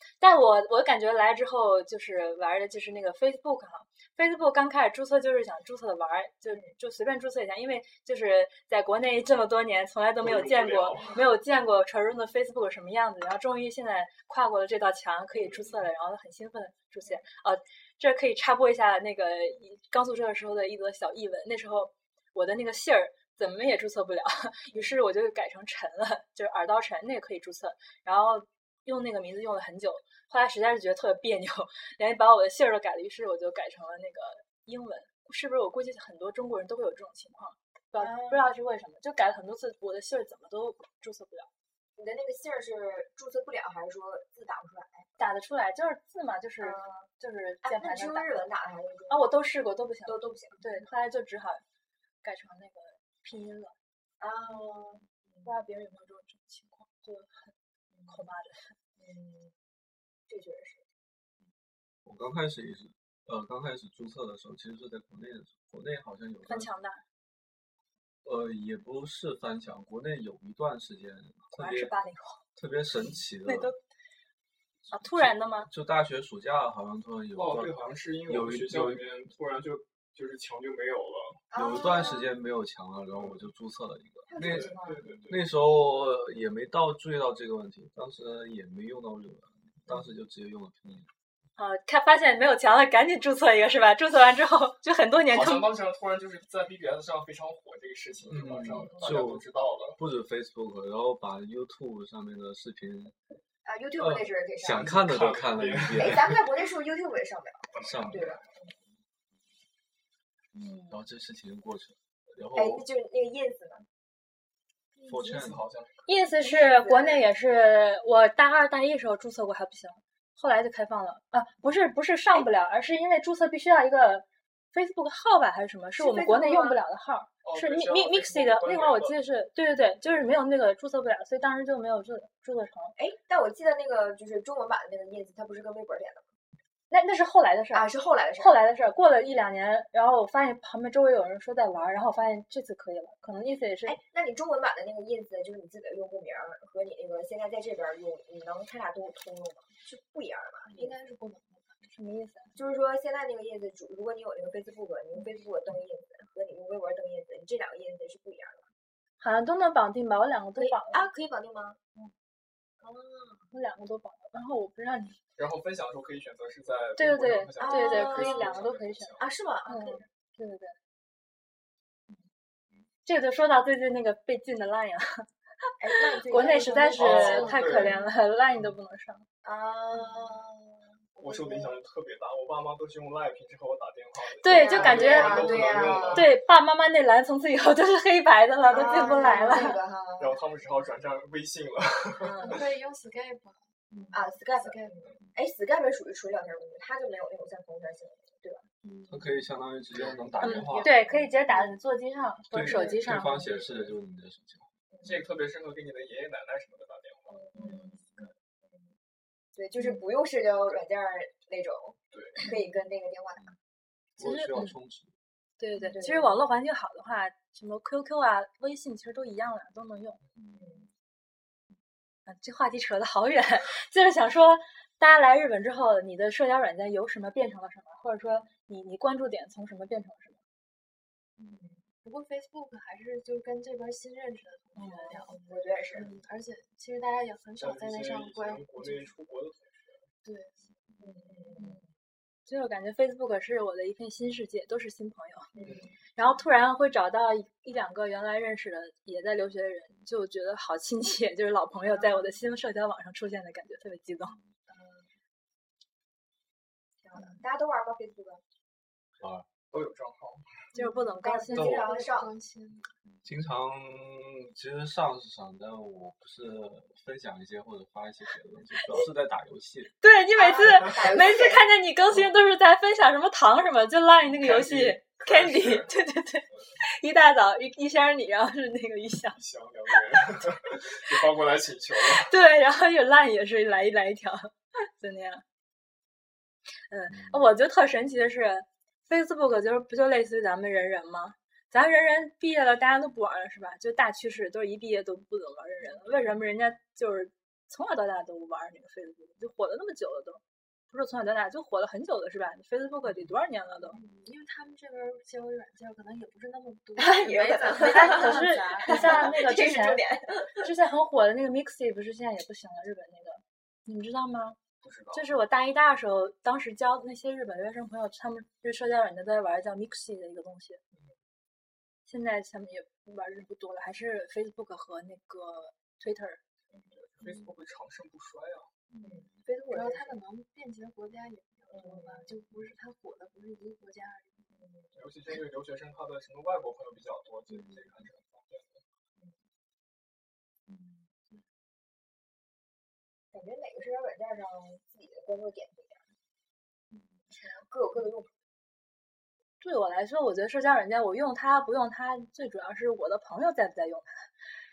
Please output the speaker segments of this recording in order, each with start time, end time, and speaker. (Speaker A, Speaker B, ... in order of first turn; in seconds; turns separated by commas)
Speaker A: 0.2-41.5, Speaker B: 10.2-11.2, Speaker B: 15.4-15.7, Speaker C: 38.0-38.5, Speaker C: 42.0-45.1, Speaker A: 45.2-48.5, Speaker C: 46.6-47.1, Speaker C: 47.6-49.3, Speaker A: 49.1-51.6, Speaker C: 50.1-50.9, Speaker A: 52.2-53.8, Speaker C: 54.2-55.5, Speaker A: 55.4-57.5, Speaker C: 57.9-58.2, Speaker A: 58.1-58.8, Speaker C: 59.0-59.5, Speaker C: 60.3-60.9, Speaker D: 62.0-66.7, Speaker A: 66.5-67.0, Speaker D: 68.2-72.0, Speaker A: 71.5-72.4, Speaker D: 72.6-73.7, Speaker A: 73.4-73.8, Speaker D: 74.9-79.1, Speaker A: 74.9-75.7, Speaker B: 77.3-81.4, Speaker C: 81.5-82.3, Speaker D: 81.5-91.1, Speaker C: 84.3-85.2, Speaker B: 84.4-85.5, Speaker A: 91.6-95.7, Speaker B: 95.3-100.0, Speaker D: 98.3-99.4, Speaker D: 100.0-103.2, Speaker C: 103.6-104.9, Speaker D: 104.0-106.4, Speaker B: 104.6-106.3, Speaker C: 105.9-108.8, Speaker B: 107.7-108.5, Speaker D: 107.8-108.3, Speaker A: 110.5-111.0, Speaker D: 110.9-112.8, Speaker C: 112.5-113.9, Speaker E: 115.0-115.3, Speaker D: 115.0-115.6, Speaker B: 115.2-116.1, Speaker A: 116.1-132.9, Speaker C: 116.4-117.2, Speaker C: 126.0-126.8, Speaker B: 127.4-129.1, Speaker C: 132.9-136.3, Speaker A: 136.9-144.0, Speaker C: 137.7-138.6, Speaker C: 143.9-150.9, Speaker E: 150.7-151.9, Speaker A: 151.8-152.6, Speaker C: 152.6-158.7, Speaker A: 159.2-161.1, Speaker C: 160.6-161.8, Speaker C: 162.8-163.5, Speaker A: 163.5-165.2, Speaker B: 165.4-169.3, Speaker A: 167.0-170.8, Speaker C: 167.6-168.5, Speaker C: 169.2-170.1, Speaker A: 173.1-175.3, Speaker C: 175.8-177.7, Speaker A: 175.9-179.2, Speaker E: 176.4-176.7, Speaker B: 176.9-178.0, Speaker E: 177.4-177.9, Speaker C: 179.4-181.8, Speaker B: 181.2-186.4, Speaker A: 184.4-189.8, Speaker C: 184.4-186.3, Speaker C: 188.7-190.4, Speaker B: 190.2-192.6, Speaker A: 192.2-192.6, Speaker E: 192.4-195.3, Speaker C: 194.1-198.7, Speaker E: 198.8-199.2, Speaker D: 199.1-200.9, Speaker B: 199.9-200.6, Speaker A: 200.4-203.5, Speaker E: 200.5-201.3, Speaker D: 202.5-204.7, Speaker E: 202.7-203.2, Speaker B: 203.3-203.9, Speaker C: 204.9-205.2, Speaker B: 205.0-207.4, Speaker C: 207.3-208.9, Speaker A: 207.5-208.0, Speaker E: 207.6-208.0, Speaker C: 209.5-213.5, Speaker B: 212.1-212.5, Speaker D: 214.2-215.1, Speaker A: 214.2-214.8, Speaker A: 215.6-220.2, Speaker C: 215.8-216.4, Speaker C: 220.5-220.9, Speaker A: 222.2-230.4, Speaker E: 231.4-239.1, Speaker A: 234.8-235.2, Speaker C: 235.2-236.1, Speaker B: 237.6-240.1, Speaker E: 240.2-241.6, Speaker C: 241.0-241.8, Speaker A: 242.5-245.6, Speaker C: 245.5-245.9, Speaker A: 246.1-254.3, Speaker E: 252.0-252.4, Speaker E: 254.4-255.1, Speaker C: 257.0-258.4, Speaker E: 257.1-257.4, Speaker D: 259.2-259.5, Speaker B: 259.7-260.6, Speaker E: 260.7-263.2, Speaker A: 260.7-261.7, Speaker C: 261.4-262.3, Speaker D: 261.5-261.9, Speaker D: 263.2-269.9, Speaker A: 270.0-279.4, Speaker C: 270.4-271.6, Speaker B: 274.4-275.9, Speaker B: 279.3-282.3, Speaker A: 282.2-285.4, Speaker A: 286.9-304.0, Speaker D: 287.1-287.4, Speaker E: 303.9-309.4, Speaker C: 307.0-310.7, Speaker A: 307.8-310.0, Speaker A: 310.6-314.6, Speaker B: 314.8-315.3, Speaker A: 315.1-320.8, Speaker A: 322.1-326.4, Speaker B: 326.9-328.7, Speaker E: 328.9-334.6, Speaker C: 329.0-330.2, Speaker C: 331.7-332.3, Speaker C: 334.6-334.9, Speaker B: 334.9-338.8, Speaker E: 340.7-341.4, Speaker C: 343.3-346.0, Speaker E: 346.9-347.5, Speaker C: 347.5-348.3, Speaker A: 349.6-354.3